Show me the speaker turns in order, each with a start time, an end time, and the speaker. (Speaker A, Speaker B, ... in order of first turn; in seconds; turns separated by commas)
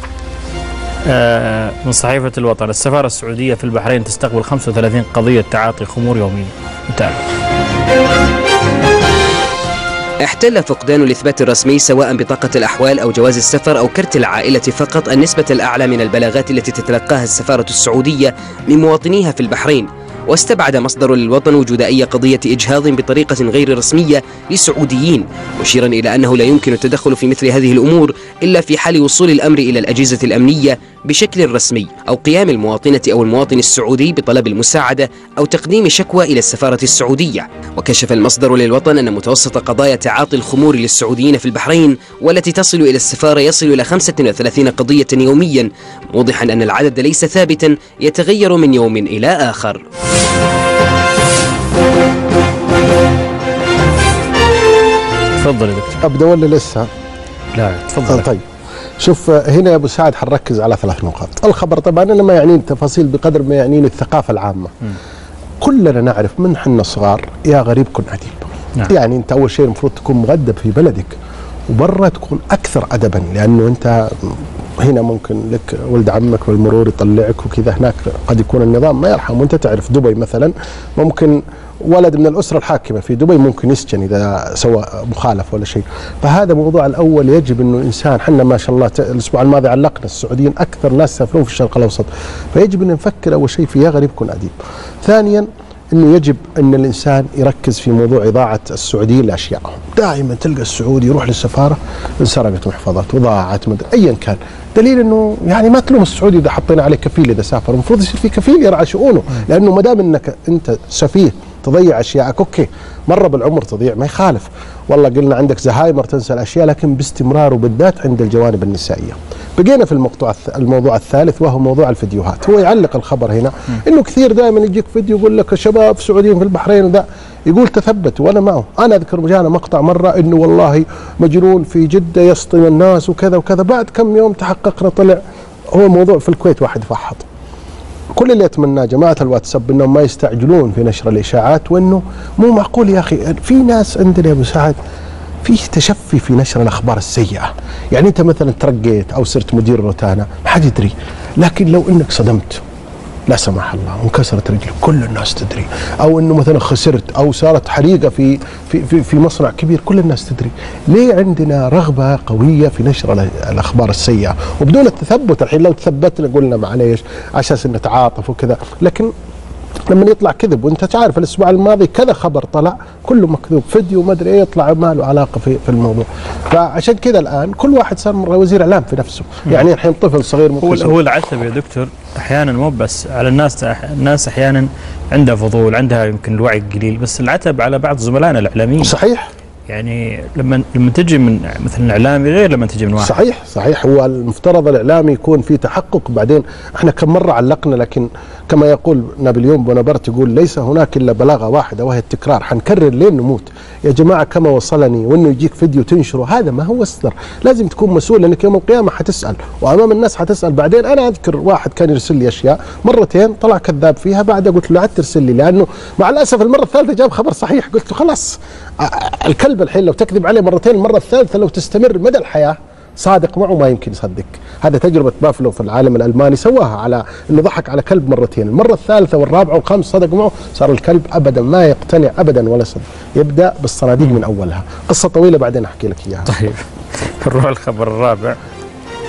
Speaker A: 1.1-7.2, Speaker B: 10.2-49.8, Speaker A: 55.4-56.0, Speaker C: 56.0-56.9, Speaker A: 57.5-58.3, Speaker C: 58.1-58.4, Speaker C: 59.0-64.7, Speaker C: 65.6-71.2, Speaker C: 71.7-135.2, Speaker C: 135.7-137.3, Speaker C: 138.2-144.8, Speaker C: 145.4-152.6, Speaker C: 153.3-169.1, Speaker C: 169.9-181.0, Speaker A: 180.6-188.9, Speaker C: 188.8-189.3, Speaker A: 189.7-193.2, Speaker C: 193.0-236.3, Speaker A: 236.3-238.4